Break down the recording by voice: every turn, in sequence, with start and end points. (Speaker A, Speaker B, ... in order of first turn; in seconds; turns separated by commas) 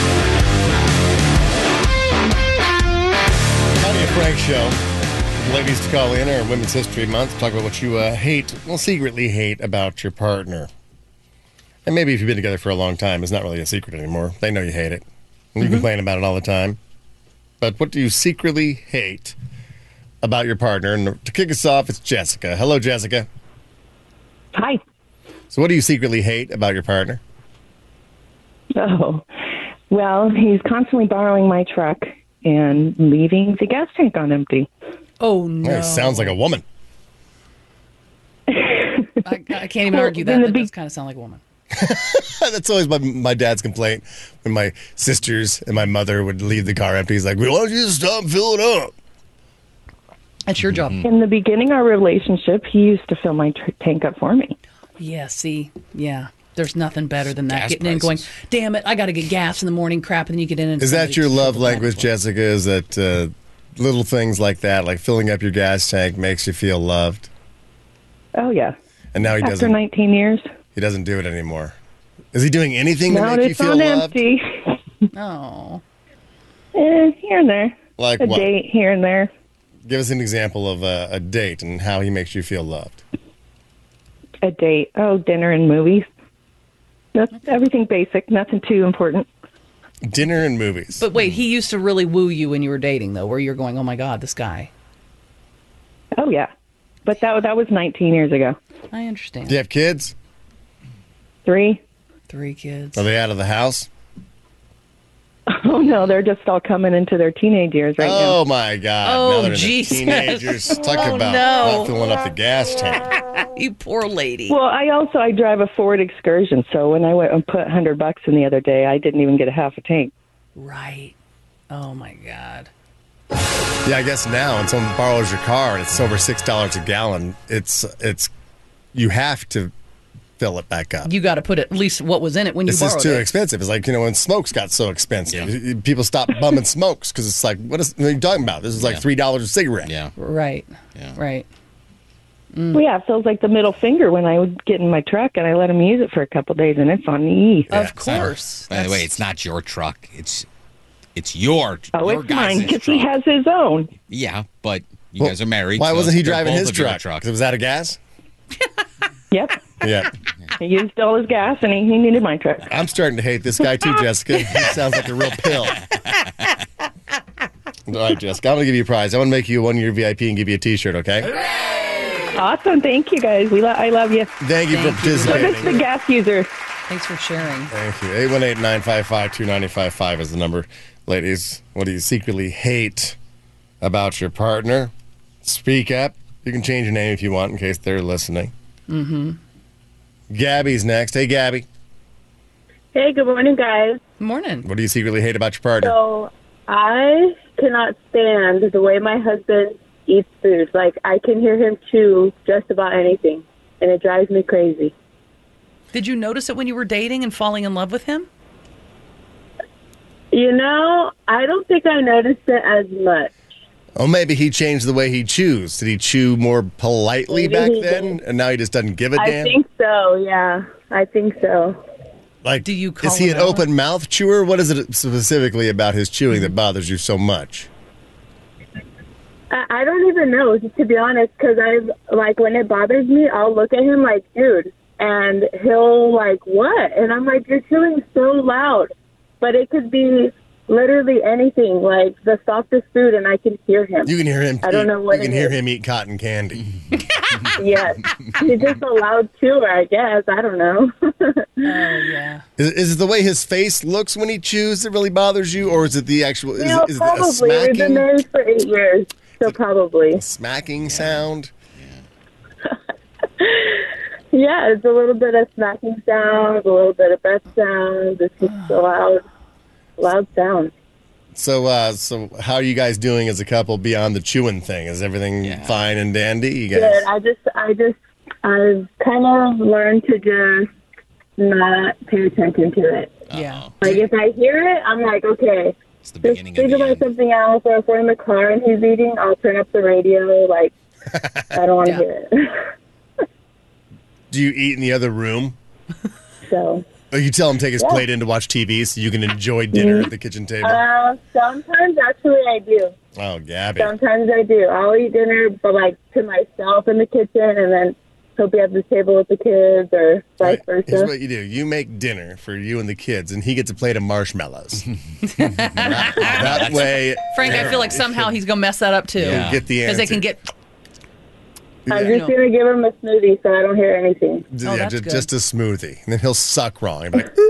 Speaker A: 3.8-4.8, Speaker A: 5.4-10.7, Speaker A: 11.9-15.0, Speaker A: 15.6-16.8, Speaker A: 17.6-19.4, Speaker A: 20.2-23.3, Speaker A: 25.5-27.2, Speaker B: 28.8-29.2, Speaker B: 29.9-34.7, Speaker C: 35.2-36.4, Speaker A: 35.6-36.6, Speaker C: 39.2-41.4, Speaker D: 40.0-40.7, Speaker A: 41.7-48.9, Speaker C: 50.5-51.1, Speaker B: 51.0-54.6, Speaker C: 55.0-62.1, Speaker E: 57.4-58.3, Speaker A: 60.8-67.3, Speaker B: 68.4-68.7, Speaker A: 69.1-69.8, Speaker B: 69.7-70.4, Speaker A: 70.8-71.8, Speaker A: 72.3-74.2, Speaker D: 73.1-74.4, Speaker C: 75.1-75.8, Speaker B: 76.8-77.7, Speaker A: 78.0-78.5, Speaker B: 78.3-79.3, Speaker A: 79.9-83.0, Speaker B: 84.4-86.1, Speaker B: 87.2-89.3, Speaker A: 90.1-91.1, Speaker C: 91.0-94.7, Speaker B: 96.2-96.5, Speaker B: 97.0-98.6, Speaker C: 98.9-99.6, Speaker A: 99.5-100.1, Speaker B: 101.5-101.8, Speaker C: 102.3-103.0, Speaker A: 103.0-103.9, Speaker B: 105.5-108.4, Speaker A: 108.0-113.2, Speaker C: 109.0-112.0, Speaker C: 113.5-114.6, Speaker B: 114.5-120.1, Speaker C: 120.5-121.2, Speaker C: 121.7-122.7, Speaker A: 123.8-128.3, Speaker A: 128.9-129.7, Speaker A: 130.4-131.1, Speaker C: 131.1-133.3, Speaker A: 132.7-139.9, Speaker E: 138.8-139.0, Speaker E: 139.8-140.1, Speaker C: 140.2-141.5, Speaker C: 142.5-142.8, Speaker B: 142.7-147.7, Speaker A: 147.7-148.3, Speaker C: 147.7-149.2, Speaker E: 148.0-150.5, Speaker E: 151.2-153.1, Speaker B: 151.9-153.9, Speaker E: 154.1-157.2, Speaker A: 155.2-158.0, Speaker B: 159.3-159.6, Speaker A: 159.8-160.1, Speaker B: 160.6-162.7, Speaker A: 162.7-165.8, Speaker A: 167.9-171.3, Speaker B: 172.4-172.8, Speaker D: 172.6-174.3, Speaker A: 174.4-175.8, Speaker C: 174.7-175.9, Speaker D: 175.2-176.5, Speaker C: 176.9-177.7, Speaker A: 177.7-183.2, Speaker A: 183.8-184.9, Speaker A: 185.4-188.5, Speaker C: 188.9-189.4, Speaker A: 190.3-191.7, Speaker D: 192.9-194.0, Speaker C: 194.2-194.7, Speaker A: 194.7-195.9, Speaker D: 195.8-204.9, Speaker C: 205.9-208.3, Speaker D: 210.3-213.3, Speaker A: 214.0-219.5, Speaker D: 217.3-218.2, Speaker D: 219.2-221.8, Speaker A: 222.4-227.7, Speaker C: 222.6-223.7, Speaker D: 229.5-244.1, Speaker A: 244.1-246.6, Speaker D: 244.6-245.5, Speaker D: 247.6-251.9, Speaker C: 251.6-252.4, Speaker A: 252.6-258.1, Speaker D: 256.6-260.2, Speaker A: 260.1-261.5, Speaker E: 260.8-261.3, Speaker E: 261.8-262.0, Speaker D: 263.4-269.2, Speaker C: 268.4-268.9, Speaker D: 270.0-270.7, Speaker A: 271.4-277.1, Speaker E: 275.4-275.8, Speaker D: 276.7-280.7, Speaker D: 281.4-283.1, Speaker E: 283.3-283.9, Speaker C: 283.3-283.9, Speaker D: 283.8-290.7, Speaker E: 286.0-287.1, Speaker A: 291.1-291.6, Speaker D: 291.5-292.7, Speaker A: 294.3-295.6, Speaker D: 296.5-296.9, Speaker A: 297.1-300.8, Speaker D: 297.8-298.1, Speaker D: 299.7-300.1, Speaker D: 300.6-302.9, Speaker A: 303.2-303.9, Speaker D: 303.8-311.1, Speaker A: 310.4-314.9, Speaker C: 315.3-316.6, Speaker A: 315.6-318.4, Speaker E: 316.2-317.7, Speaker C: 317.3-320.5, Speaker A: 319.2-320.2, Speaker E: 319.2-319.6, Speaker A: 321.9-322.1, Speaker D: 321.9-324.4, Speaker C: 322.0-322.4, Speaker A: 324.5-327.4, Speaker C: 324.6-325.3